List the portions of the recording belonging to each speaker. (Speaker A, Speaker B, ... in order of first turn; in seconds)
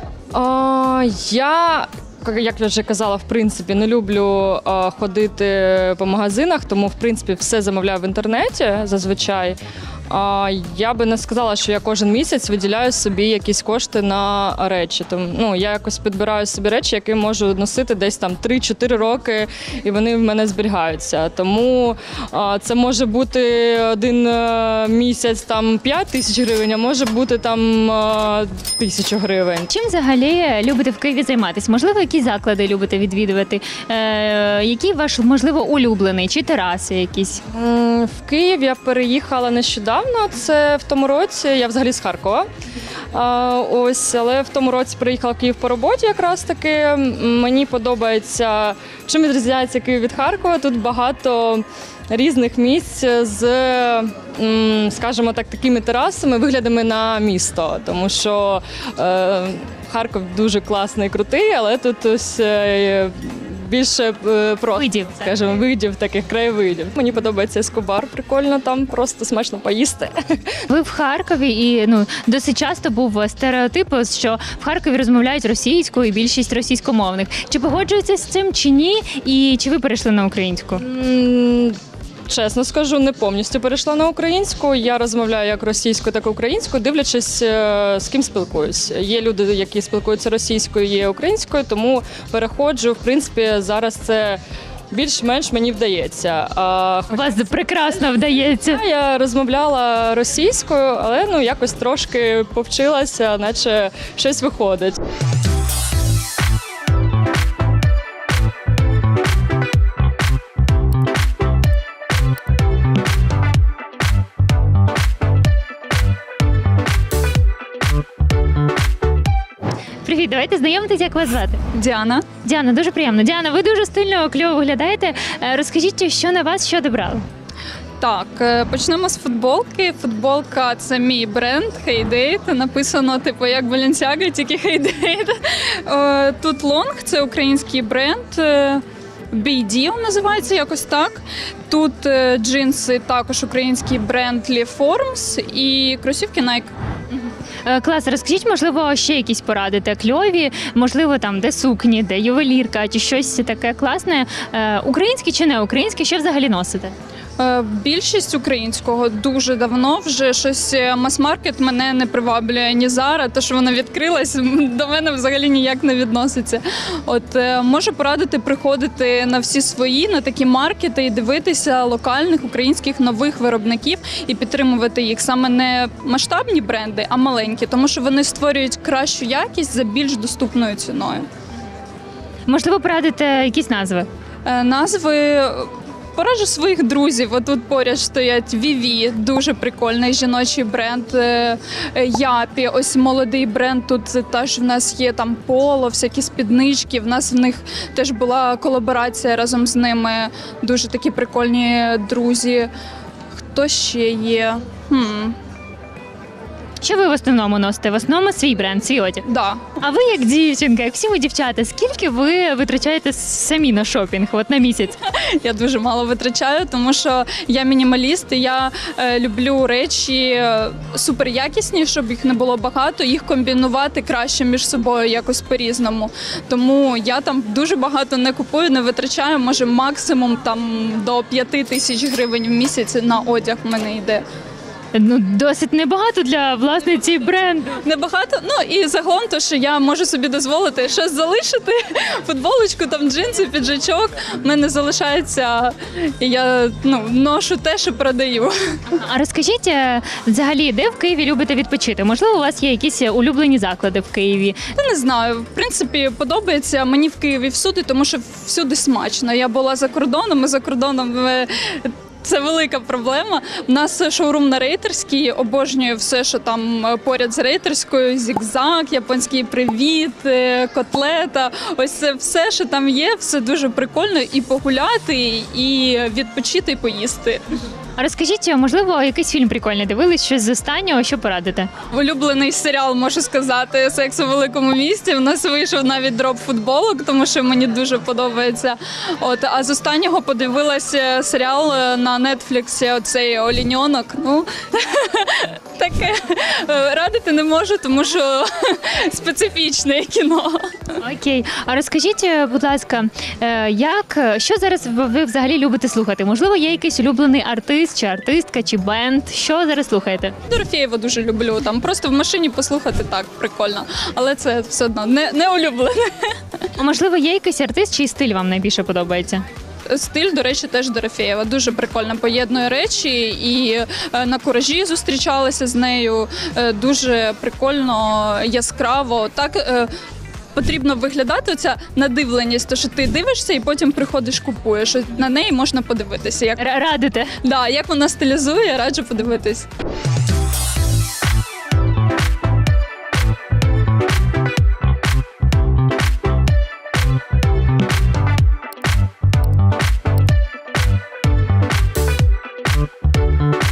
Speaker A: 0.3-29.7, 37.5-42.5, 43.1-70.6, 80.8-81.8, 82.3-94.4, 94.9-97.4, 98.7-105.0
Speaker B: 29.7-37.4, 64.7-65.2, 70.7-80.8, 97.1-98.8, 120.0-121.6, 122.4-127.2, 147.6-156.9, 182.5-184.1, 206.8-209.2, 209.8-215.0, 234.9-237.8, 248.9-254.6, 278.0-281.7, 301.0-310.3, 316.8-319.4, 336.6-337.3
Speaker C: 121.7-122.3, 128.0-146.7, 157.4-181.2, 184.4-202.7, 203.4-205.3, 209.2-209.6, 215.1-234.2, 237.8-248.5, 254.8-277.4, 281.9-300.9, 310.5-316.4, 319.9-329.9, 330.5-336.6, 337.4-339.7